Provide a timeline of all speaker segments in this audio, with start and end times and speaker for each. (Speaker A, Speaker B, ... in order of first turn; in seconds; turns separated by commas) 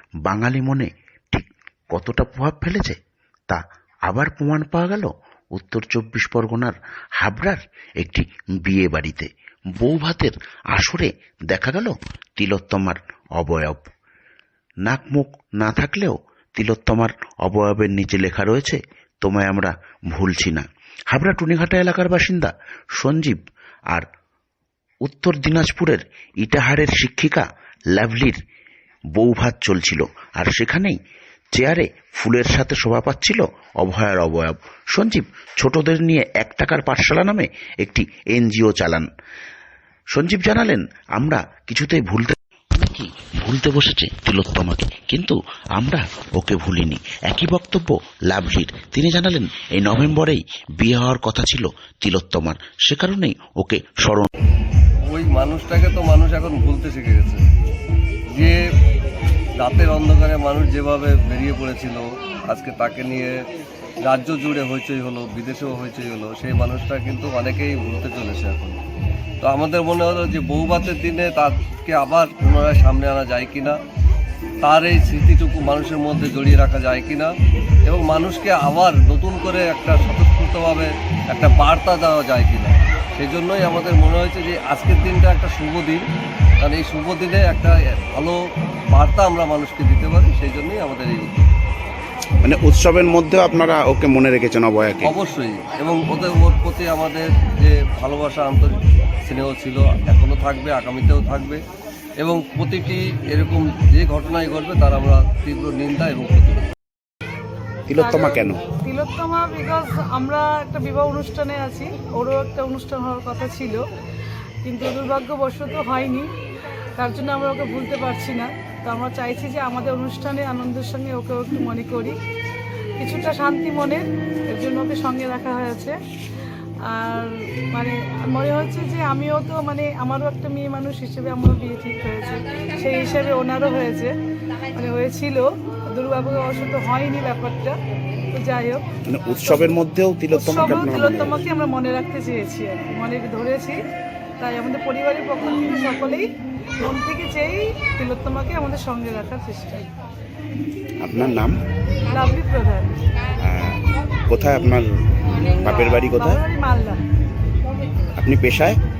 Speaker A: 0.2-3.0, Speaker A: 3.5-13.9, Speaker A: 14.9-23.4, Speaker A: 25.1-28.4, Speaker A: 29.2-31.0, Speaker A: 31.6-39.1, Speaker A: 40.1-54.3, Speaker B: 55.1-57.4, Speaker B: 58.4-58.6, Speaker B: 59.6-63.4, Speaker B: 64.0-68.8, Speaker B: 69.4-73.8, Speaker B: 74.6-77.3, Speaker B: 77.8-86.0, Speaker B: 86.6-88.4, Speaker B: 88.9-91.5, Speaker C: 92.4-95.1, Speaker B: 95.0-101.6, Speaker B: 102.2-106.7, Speaker C: 107.9-108.6, Speaker D: 108.0-113.8, Speaker D: 114.7-116.3, Speaker D: 117.0-122.2, Speaker D: 123.0-126.0, Speaker D: 126.8-134.1, Speaker D: 134.7-137.8, Speaker D: 138.3-138.8, Speaker C: 139.1-141.4, Speaker D: 139.5-139.7, Speaker D: 140.3-143.8, Speaker D: 144.4-146.3, Speaker D: 146.8-149.8, Speaker C: 151.0-151.6, Speaker D: 152.1-152.9, Speaker C: 153.4-156.4, Speaker D: 156.2-157.0, Speaker C: 158.2-158.8